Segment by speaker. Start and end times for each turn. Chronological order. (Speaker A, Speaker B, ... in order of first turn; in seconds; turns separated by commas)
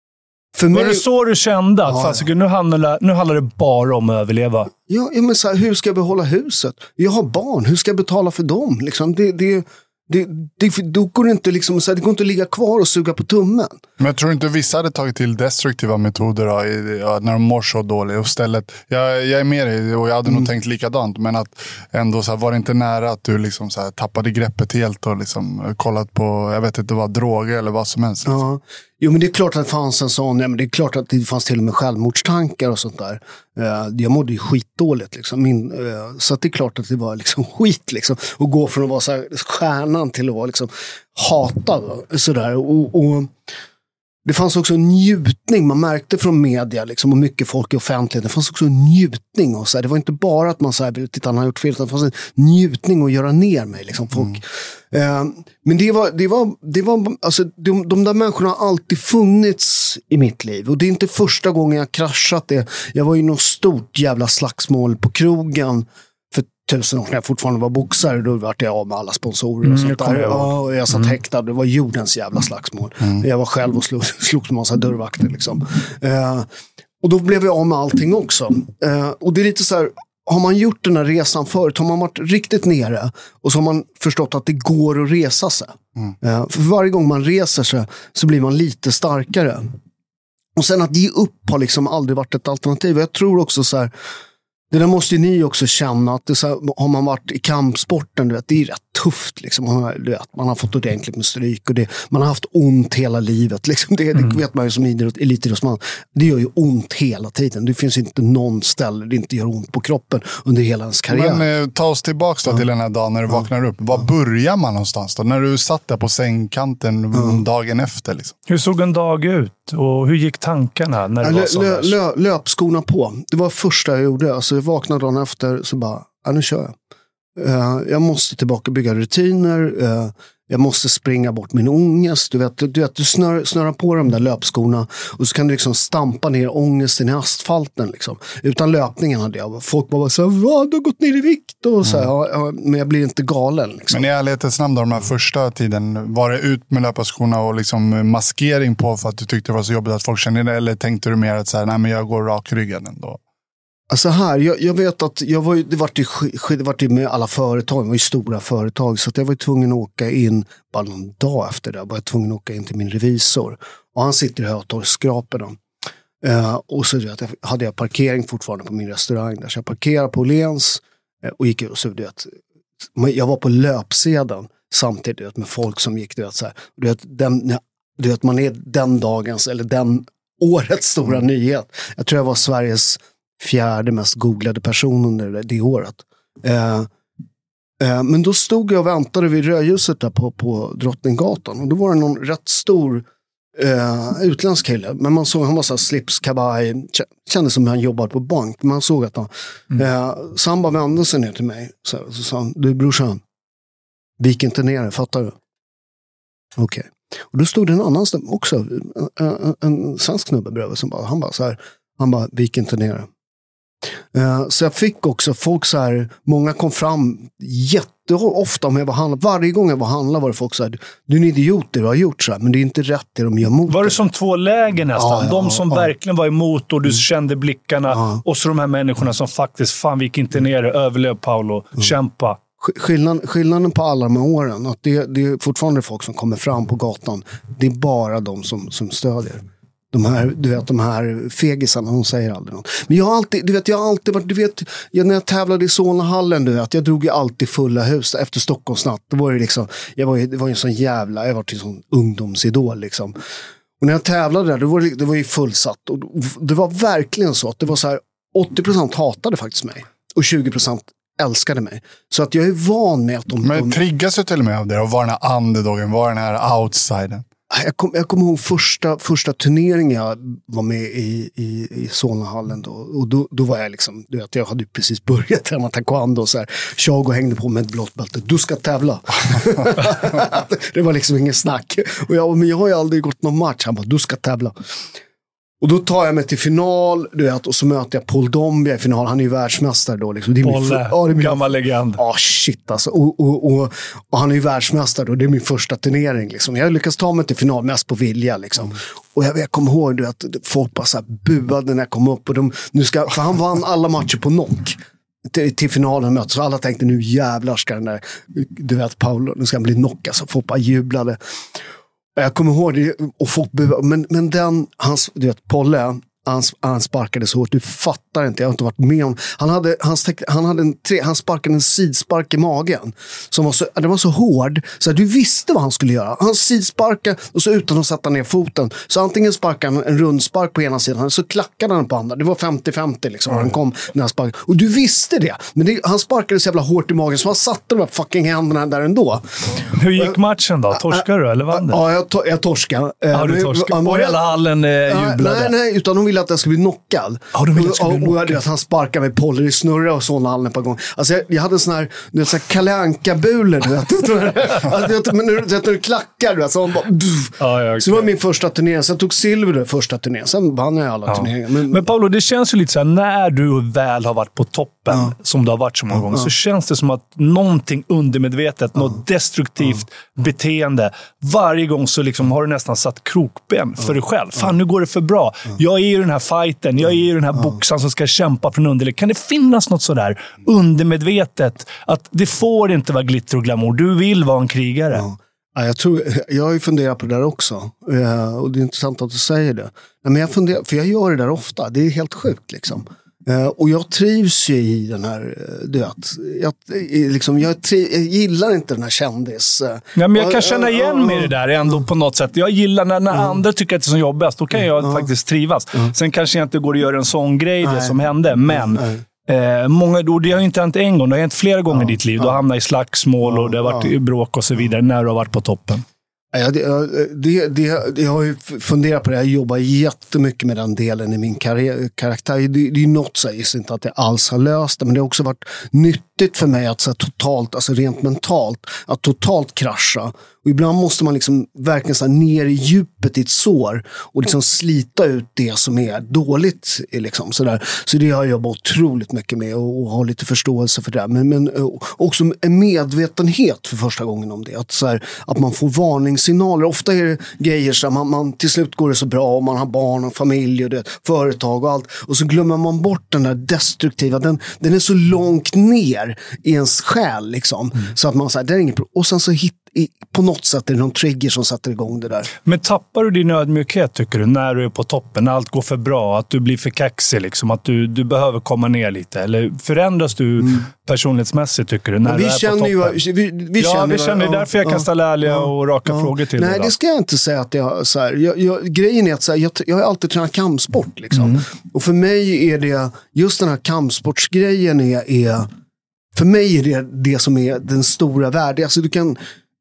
Speaker A: 0.6-1.0, Speaker B: 0.7-4.7, Speaker A: 1.9-2.2, Speaker A: 4.9-13.8, Speaker C: 14.0-28.4, Speaker A: 28.3-43.3, Speaker A: 44.2-76.5, Speaker B: 69.6-71.1, Speaker A: 77.0-89.7, Speaker A: 90.6-93.9, Speaker A: 94.7-111.4, Speaker C: 111.1-118.3, Speaker B: 118.5-122.0, Speaker A: 121.2-126.7, Speaker A: 127.4-144.0, Speaker C: 143.9-153.2, Speaker A: 153.9-165.6, Speaker A: 166.2-172.4, Speaker A: 172.9-186.9, Speaker A: 187.8-193.1, Speaker A: 193.6-203.2, Speaker A: 204.2-205.3, Speaker A: 206.6-213.1, Speaker A: 214.1-224.0, Speaker B: 223.7-232.4, Speaker A: 225.0-225.9, Speaker A: 232.6-239.4, Speaker A: 239.9-253.2, Speaker A: 253.8-263.8, Speaker C: 263.4-267.3, Speaker A: 267.5-284.5, Speaker A: 285.6-291.4, Speaker B: 290.4-292.0, Speaker A: 292.0-311.2, Speaker A: 312.2-340.1, Speaker B: 339.7-341.8, Speaker A: 340.9-344.2, Speaker B: 343.1-345.5, Speaker A: 344.9-361.8, Speaker B: 347.3-348.4, Speaker B: 357.4-358.1, Speaker B: 361.1-385.1, Speaker A: 385.0-401.3, Speaker B: 400.0-415.8, Speaker A: 404.8-405.1, Speaker A: 407.6-407.9, Speaker A: 413.3-413.9, Speaker A: 416.3-462.3, Speaker B: 462.4-473.0, Speaker A: 472.0-485.5, Speaker B: 473.6-476.7, Speaker B: 481.2-481.4, Speaker A: 486.1-489.2